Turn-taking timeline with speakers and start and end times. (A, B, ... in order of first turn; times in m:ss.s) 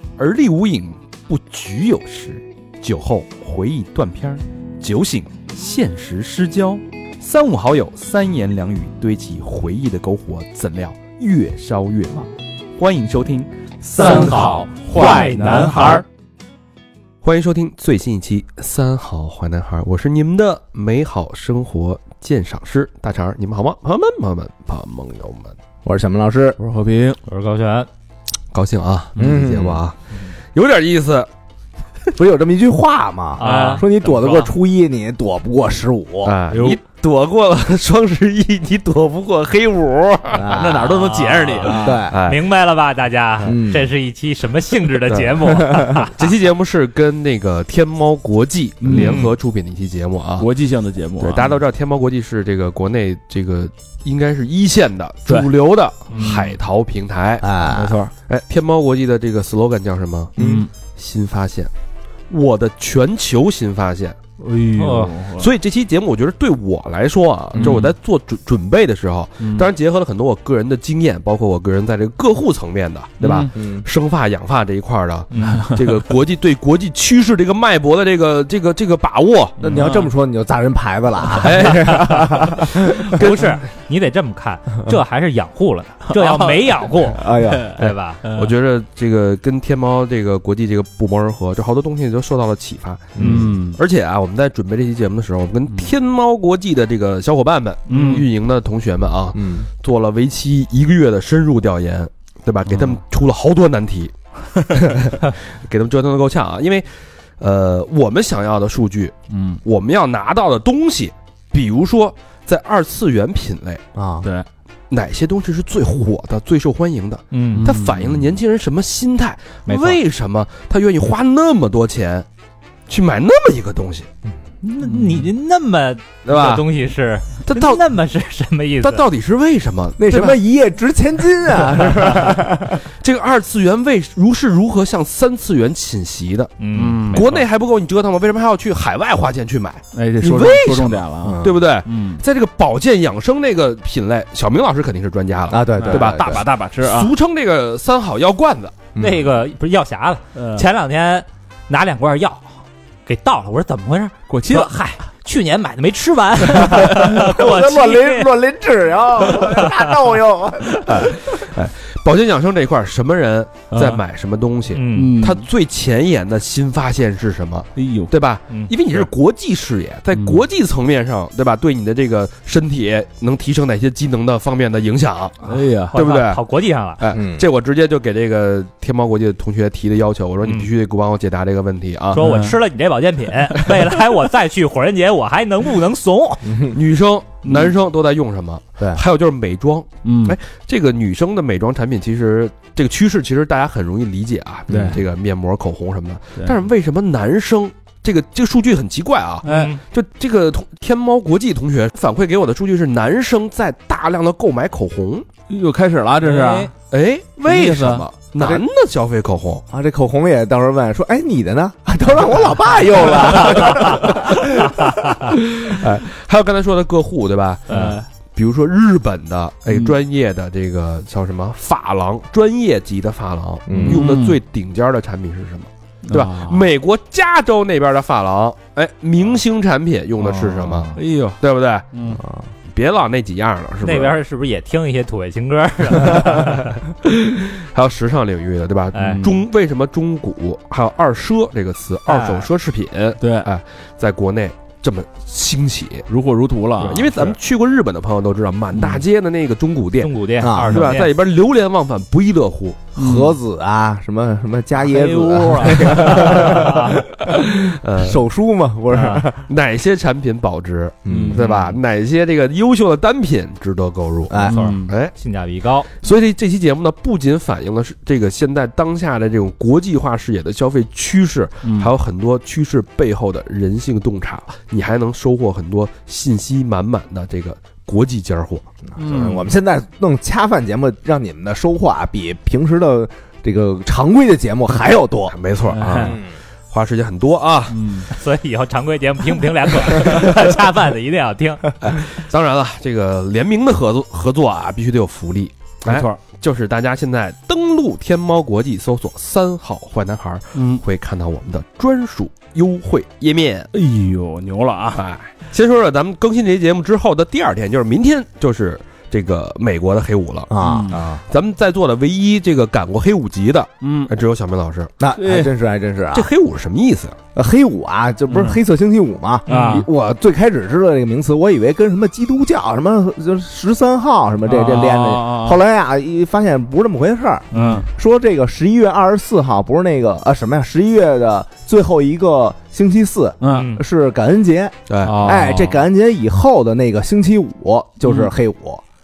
0:00.2-0:01.0 A
0:01.3-0:16.0 B
0:14.0-0:16.0 C
0:14.0-0:16.0 D
0:17.2-0:25.5 A
0:25.8-0:26.6 E
0:26.6-0:27.2 D
0:27.2-0:27.9 C
0:28.5-0:30.0 A
0:29.2-0:29.8 E
0:30.5-0:31.3 A
0:32.2-0:36.4 E
0:33.4-0:33.8 C
0:33.4-0:34.5 D
0:36.2-0:42.4 A
0:36.5-0:36.8 D
0:40.3-0:41.1 E
0:40.4-0:42.0 D
0:41.7-0:42.2 E
0:42.2-0:46.3 C
0:43.4-0:43.9 E
0:45.4-0:46.1 E
0:46.2-0:50.5 A
0:48.8-0:49.2 D
0:48.9-0:49.3 C
0:50.4-0:51.5 D
0:51.2-0:57.5 A
0:56.1-0:56.6 C
0:57.4-0:58.0 E
0:57.7-0:58.1 D
0:58.2-1:00.3 A
1:00.4-1:00.7 D
1:00.4-1:00.7 E
1:01.0-1:01.7 A
1:02.3-1:04.2 A
1:04.4-1:05.5 D
1:04.8-1:05.2 C
1:05.4-1:19.6 A
1:07.6-1:07.9 D
1:09.4-1:09.7 D
1:13.2-1:13.5 D
1:13.5-1:13.9 E
1:15.3-1:15.7 C
1:15.4-1:15.8 D
1:19.6-1:20.1 D
1:19.6-1:23.1 E
1:21.3-1:23.6 A
1:22.9-1:28.2 C
1:26.1-1:28.5 D
1:27.1-1:27.8 E
1:28.3-1:44.1 A
1:33.2-1:33.5 E
1:33.2-1:33.8 D
1:37.9-1:38.3 D
1:39.3-1:39.7 E
1:44.7-1:53.8 A
1:49.3-1:49.6 D
1:53.9-1:54.3 E
1:54.9-2:02.2 A
1:57.3-1:57.7 C
1:57.6-1:58.2 D
1:59.6-2:00.0 C
2:02.9-2:04.1 A
2:04.6-2:09.0 C
2:06.2-2:06.6 A
2:07.4-2:07.8 A
2:08.8-2:10.4 A
2:10.0-2:12.8 E
2:11.7-2:16.6 A
2:16.6-2:17.4 C
2:16.7-2:17.2 D
2:17.1-2:28.8 A
2:19.9-2:22.2 D
2:21.2-2:21.6 E
2:25.5-2:26.4 E
2:25.8-2:27.1 D
2:28.9-2:29.3 E
2:29.0-2:32.5 C
2:30.3-2:30.7 D
2:33.0-2:38.4 C
2:34.3-2:34.7 D
2:36.6-2:41.1 E
2:39.3-2:39.8 C
2:40.9-2:56.4 A
2:43.7-2:44.0 D
2:44.7-2:45.2 C
2:44.9-2:45.5 D
2:47.8-2:48.1 D
2:48.5-2:49.0 C
2:50.1-2:50.4 D
2:55.4-2:56.0 D
2:55.9-2:57.0 C
2:57.0-3:02.2 A
2:57.1-2:57.4 E
3:00.4-3:00.7 C
3:02.1-3:06.6 C
3:02.2-3:02.6 D
3:06.4-3:06.8 E
3:06.7-3:25.3 A
3:07.4-3:07.7 D
3:10.0-3:10.4 D
3:14.7-3:15.0 E
3:14.7-3:15.0 D
3:19.4-3:19.7 D
3:19.4-3:19.8 C
3:25.5-3:26.7 D
3:26.2-3:26.7 C
3:26.9-3:29.6 A
3:27.4-3:28.0 D
3:29.7-3:34.9 E
3:33.3-3:34.3 A
3:35.3-3:51.9 A
3:37.7-3:38.0 D
3:37.7-3:38.0 C
3:43.7-3:44.0 E
3:43.8-3:44.4 D
3:46.1-3:46.6 D
3:50.2-3:51.0 C
3:51.0-3:51.4 D
3:51.9-3:52.2 D
3:52.7-3:54.2 A
3:53.8-3:56.8 C
3:56.2-3:56.5 A
3:57.0-4:06.1 A
3:58.9-3:59.2 C
3:59.0-3:59.4 D
4:02.0-4:02.5 C
4:03.2-4:03.5 D
4:06.1-4:07.4 D
4:06.8-4:12.9 A
4:08.7-4:09.0 D
4:10.0-4:11.1 C
4:10.4-4:10.8 E
4:13.0-4:13.3 D
4:13.0-4:19.4 E
4:14.8-4:16.5 D
4:15.1-4:17.0 C
4:17.6-4:18.2 A
4:18.9-4:19.2 C
4:19.4-4:25.1 A
4:21.0-4:21.4 E
4:21.1-4:21.6 D
4:24.3-4:24.6 E
4:24.5-4:24.9 D
4:24.5-4:25.9 C
4:25.9-4:38.7 A
4:31.6-4:31.9 D
4:38.9-4:46.3 E
4:39.0-4:39.4 D
4:45.3-4:48.1 A
4:45.7-4:46.2 D
4:47.7-4:48.1 D
4:48.1-4:51.6 C
4:51.8-5:03.7 A
4:55.9-4:56.2 D
5:00.5-5:00.8 D
5:03.7-5:05.0 D
5:04.9-5:14.9 A
5:10.5-5:11.0 E
5:10.6-5:11.0 D
5:10.9-5:11.2 C
5:13.8-5:14.1 D
5:15.0-5:16.3 E
5:15.1-5:15.5 D
5:16.1-5:17.2 A
5:17.3-5:38.8 E
5:18.3-5:18.6 D
5:19.5-5:19.8 C
5:19.5-5:19.9 D
5:24.5-5:25.6 D
5:27.5-5:27.9 D
5:33.4-5:33.7 D
5:33.4-5:33.8 C
5:34.9-5:35.4 A
5:35.0-5:35.8 D
5:38.0-5:38.3 D